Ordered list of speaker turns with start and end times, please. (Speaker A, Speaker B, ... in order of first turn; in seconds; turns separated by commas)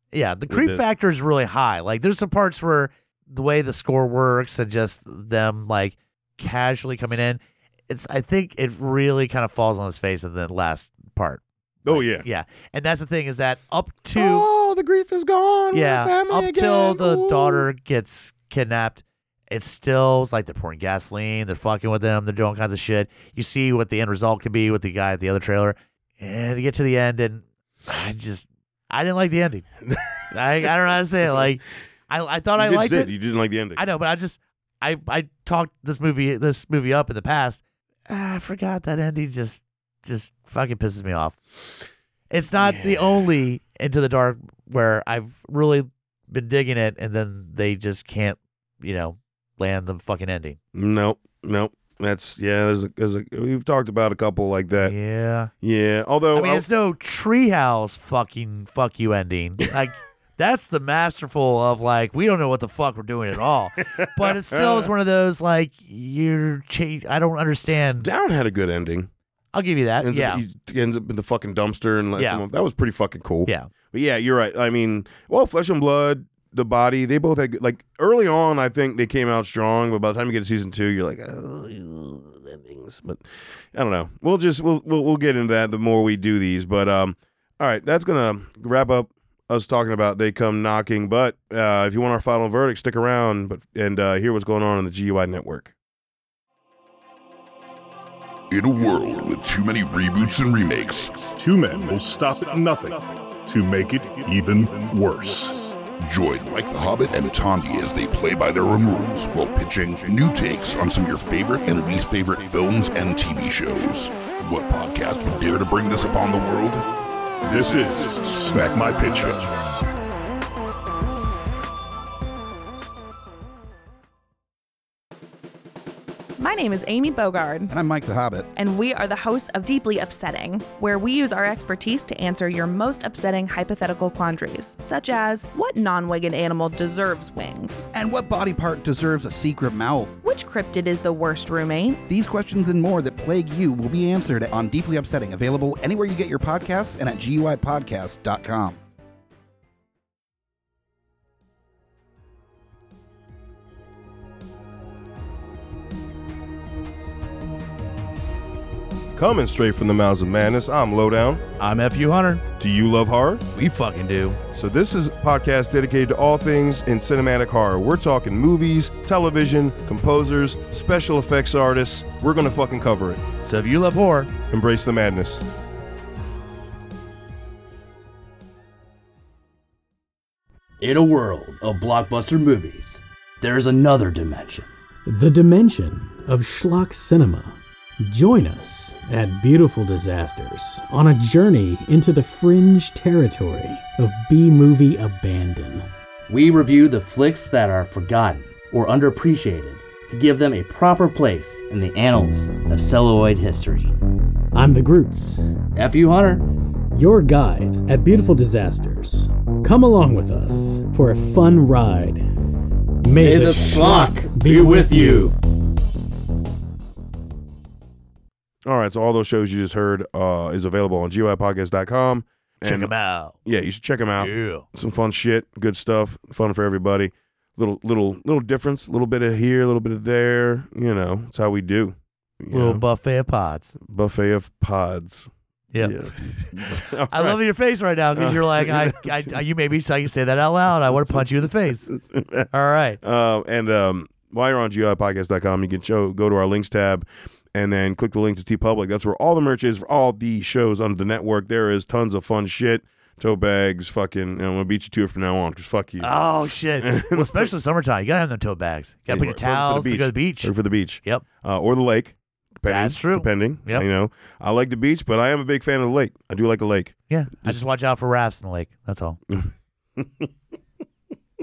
Speaker A: 0.1-14.5, Speaker B: 0.5-0.8, Speaker B: 11.8-12.2, Speaker B: 14.1-17.7, Speaker A: 15.7-29.7, Speaker A: 30.3-33.1, Speaker B: 32.5-33.8, Speaker A: 33.7-41.4, Speaker A: 42.3-50.6, Speaker B: 42.6-43.3, Speaker B: 50.7-54.9, Speaker A: 54.8-55.5, Speaker B: 55.6-56.7, Speaker A: 56.3-68.1, Speaker B: 64.0-64.9, Speaker B: 68.0-69.1, Speaker A: 69.5-70.4, Speaker B: 70.0-95.7, Speaker A: 72.2-72.4, Speaker C: 98.5-101.3, Speaker D: 101.3-105.8, Speaker C: 105.9-116.9, Speaker C: 117.5-119.5, Speaker D: 117.5-119.5, Speaker E: 126.4-127.7, Speaker F: 127.7-128.5, Speaker E: 128.5-137.8, Speaker F: 137.9-140.2, Speaker E: 140.2-142.0, Speaker F: 142.1-148.8, Speaker B: 159.2-161.4, Speaker A: 161.6-162.4, Speaker B: 162.6-163.4, Speaker A: 163.5-164.4, Speaker B: 164.5-173.2, Speaker A: 173.4-174.3, Speaker B: 174.5-175.4, Speaker G: 180.8-184.6, Speaker H: 185.1-195.9, Speaker G: 196.3-203.9, Speaker H: 204.5-205.4, Speaker G: 205.8-206.4, Speaker H: 206.9-212.2, Speaker H: 213.0-215.3, Speaker G: 213.2-215.3, Speaker B: 218.6-222.9, Speaker A: 222.6-223.3, Speaker B: 223.4-232.8, Speaker A: 224.2-224.6, Speaker A: 232.5-233.7, Speaker B: 233.8-237.4, Speaker A: 235.7-241.9, Speaker B: 238.1-239.3, Speaker B: 240.8-242.5, Speaker A: 242.5-243.0, Speaker B: 243.0-256.1, Speaker A: 256.0-261.2, Speaker B: 256.8-257.5, Speaker B: 259.1-267.6, Speaker A: 262.6-263.9, Speaker A: 267.1-269.2, Speaker B: 269.3-270.3